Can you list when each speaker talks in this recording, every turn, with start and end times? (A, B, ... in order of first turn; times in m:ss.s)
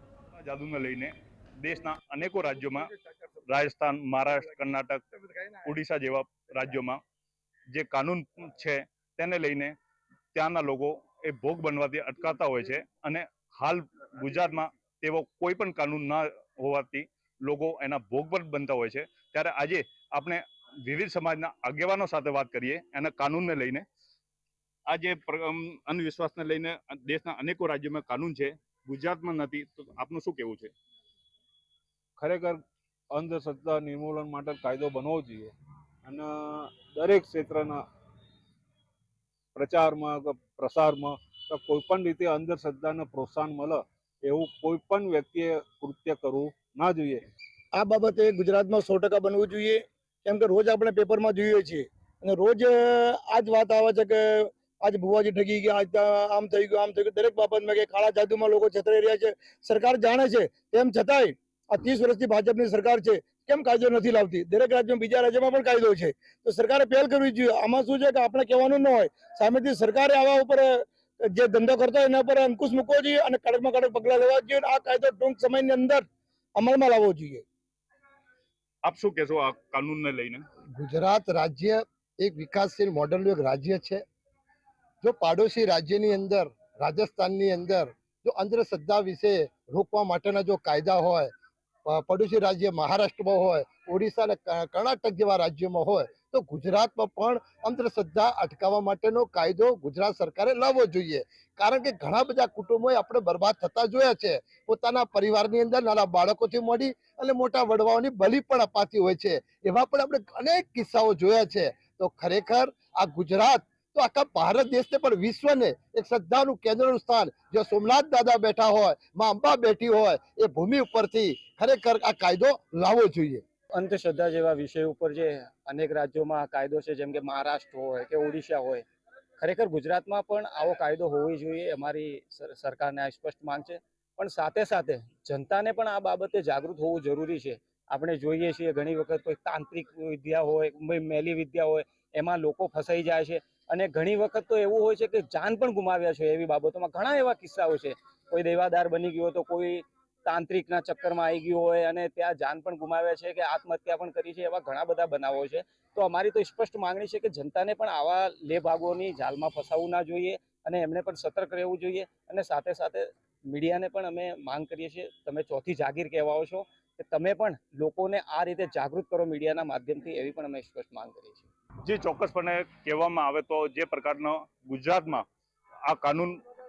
0:00.4-0:02.9 A
0:03.4-0:05.0 A
0:05.6-0:07.0 A
0:07.7-0:09.8 A
0:10.3-0:23.8 A
0:24.9-0:30.7 A
0:32.2-0:35.5 B
0:36.0-0:37.8 B
0:39.5-0:47.2 B
0:47.7-1:17.4 C
1:18.8-1:20.4 A
1:20.8-1:24.0 D
1:25.0-1:31.3 D
1:31.9-2:03.4 D
2:03.8-2:08.8 E
2:09.4-2:51.5 E
2:51.8-2:55.2 A
2:55.9-2:56.4 A